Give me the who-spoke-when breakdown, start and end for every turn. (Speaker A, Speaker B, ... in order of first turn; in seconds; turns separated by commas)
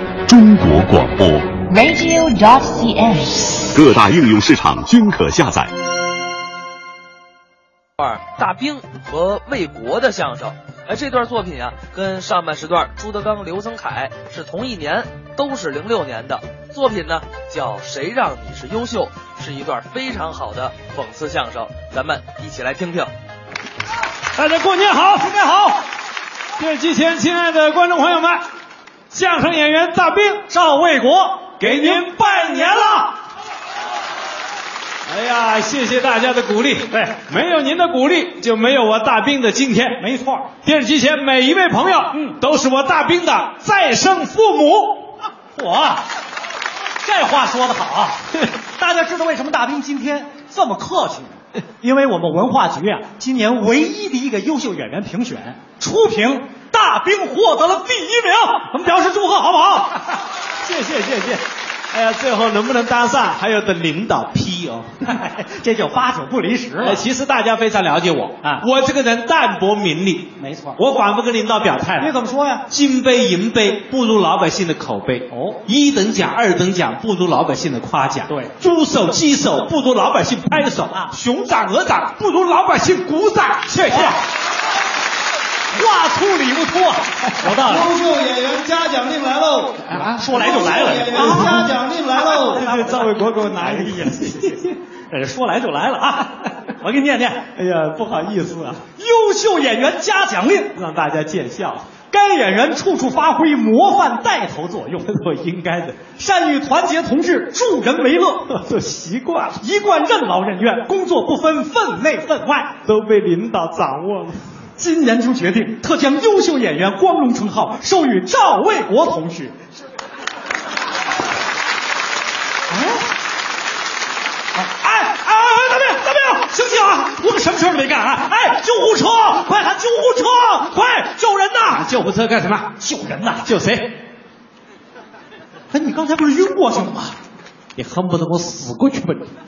Speaker A: 0.3-1.6, Speaker B: 1.7-3.6, Speaker A: 3.7-5.7, Speaker C: 8.0-23.1, Speaker D: 24.4-25.3, Speaker E: 25.2-25.8, Speaker D: 26.6-28.4, Speaker D: 29.1-30.4, Speaker E: 30.5-33.1, Speaker D: 31.6-33.0, Speaker D: 35.1-40.0, Speaker E: 36.9-37.2, Speaker E: 40.0-40.5, Speaker D: 40.6-45.1, Speaker E: 42.1-42.4, Speaker E: 45.5-46.1, Speaker E: 47.0-48.2, Speaker E: 48.8-60.0, Speaker D: 60.7-64.9, Speaker E: 65.0-67.0, Speaker D: 66.8-72.1, Speaker E: 70.4-70.8, Speaker E: 72.0-72.7, Speaker D: 72.7-84.2, Speaker E: 75.3-75.6, Speaker E: 78.3-78.5, Speaker E: 83.8-84.2, Speaker E: 85.7-87.9, Speaker F: 87.5-89.9, Speaker D: 89.9-94.7, Speaker E: 90.1-91.7, Speaker F: 90.5-92.6, Speaker E: 92.3-97.5, Speaker D: 97.5-98.8, Speaker E: 99.0-100.8, Speaker D: 100.7-101.9, Speaker E: 102.1-105.1, Speaker D: 105.0-106.0, Speaker E: 106.2-108.5, Speaker D: 108.5-109.6, Speaker E: 109.6-112.8, Speaker D: 112.8-114.4, Speaker E: 114.8-119.5, Speaker E: 122.7-123.1, Speaker E: 124.5-131.9, Speaker D: 131.7-132.7, Speaker E: 132.8-133.5, Speaker D: 133.4-134.0, Speaker E: 135.7-137.2, Speaker D: 137.8-139.3